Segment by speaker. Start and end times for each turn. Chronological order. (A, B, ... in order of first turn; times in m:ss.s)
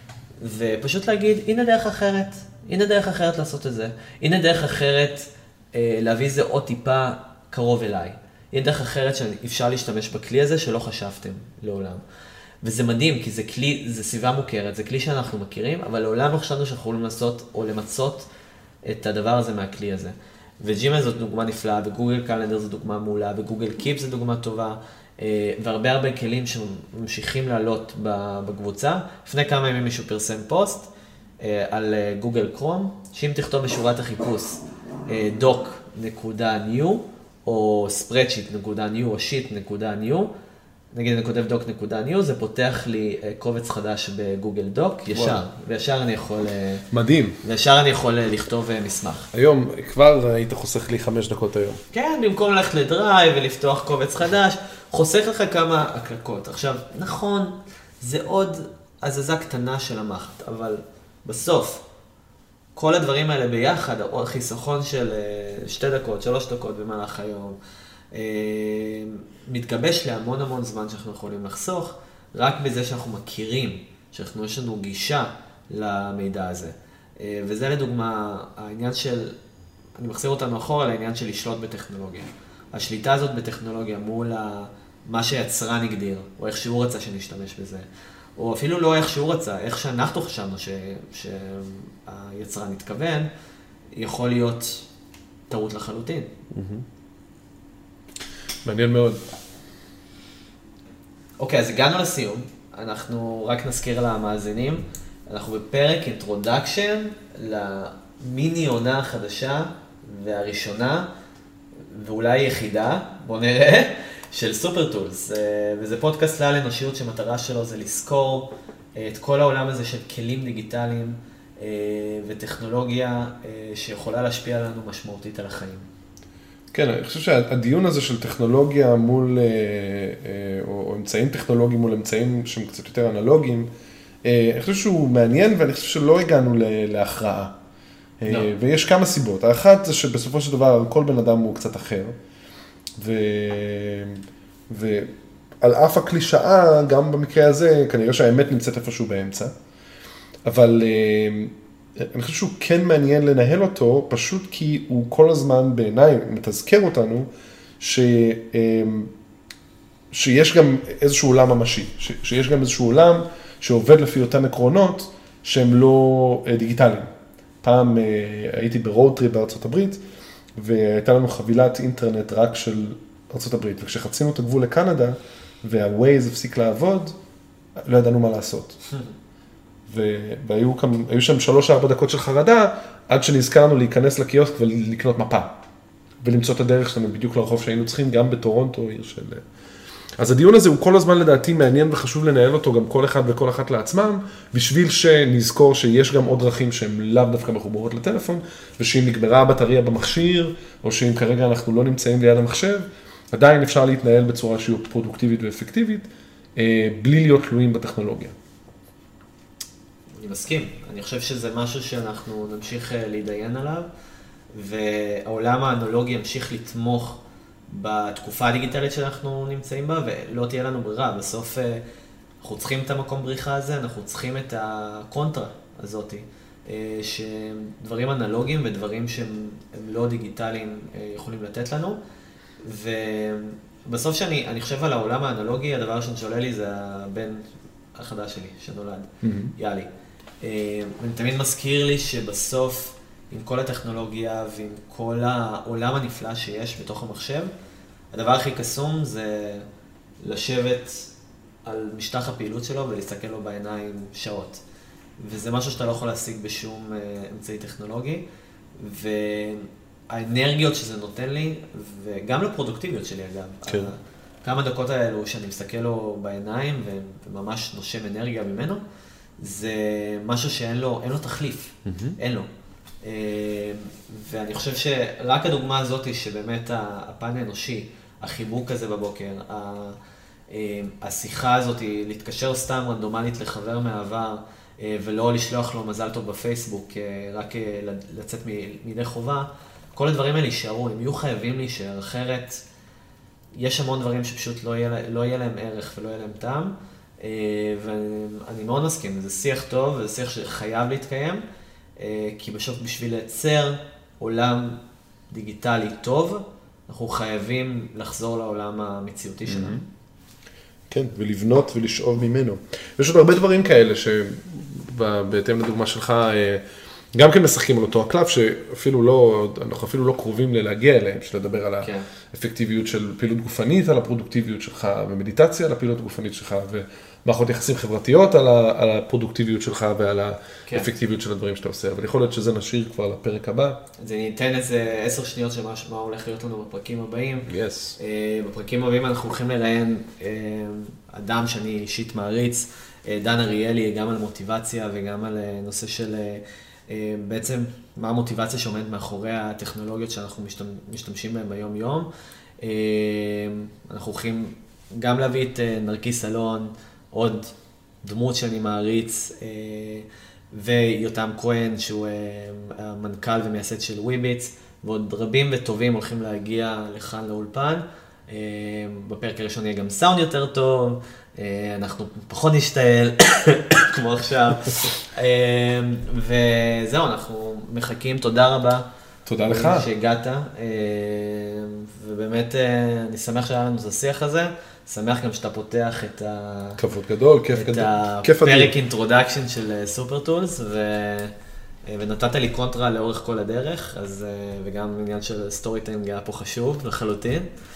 0:00.4-0:12.0 A
0:12.6-0:18.3 A
0:18.9-0:40.3 A
0:40.9-0:46.8 A
0:45.1-0:45.4 B
0:46.9-0:47.4 B
0:47.4-0:49.3 A
0:49.3-0:51.8 B
0:51.9-1:01.8 A
1:02.8-1:07.6 A
1:08.1-1:19.4 A
1:20.0-1:27.9 A
1:28.4-1:33.3 A
1:34.0-1:34.9 A
1:35.5-1:36.3 A
1:36.5-1:36.8 B
1:38.6-1:39.2 B
1:41.4-1:51.1 A
1:51.9-2:05.9 A
2:06.7-2:13.7 B
2:14.2-2:17.5 B
2:18.2-2:22.2 B
2:23.0-2:29.5 B
2:30.5-2:37.3 B
2:37.8-2:39.1 B
2:40.1-2:47.1 B
2:47.6-2:50.0 B
2:50.6-2:57.2 B
2:57.8-2:58.8 B
2:59.9-3:05.6 B
3:06.2-3:09.4 B
3:10.2-3:28.4 B
3:30.2-3:33.9 A
3:34.5-3:41.8 A
3:42.4-3:52.0 A
3:52.6-3:59.9 A
3:59.2-3:59.5 B
4:00.4-4:07.5 A
4:08.1-4:09.7 A
4:10.2-4:11.1 A
4:11.6-4:14.6 A
4:15.2-4:18.2 A
4:18.8-4:28.8 A
4:23.7-4:23.9 B
4:29.4-4:32.5 A
4:31.9-4:32.2 B
4:33.0-4:40.0 A
4:40.5-4:52.6 A
4:53.6-5:01.4 A
5:02.0-5:04.8 A
5:05.3-5:09.8 A
5:09.5-5:09.8 B
5:10.9-5:16.6 B
5:17.1-5:33.8 B
5:21.8-5:22.1 A
5:34.0-5:52.1 A
5:37.5-5:38.0 B
5:52.6-6:18.9 A
6:19.3-6:19.9 B
6:19.5-6:26.8 A
6:26.8-6:28.7 B
6:27.5-6:31.3 A
6:31.9-6:37.5 A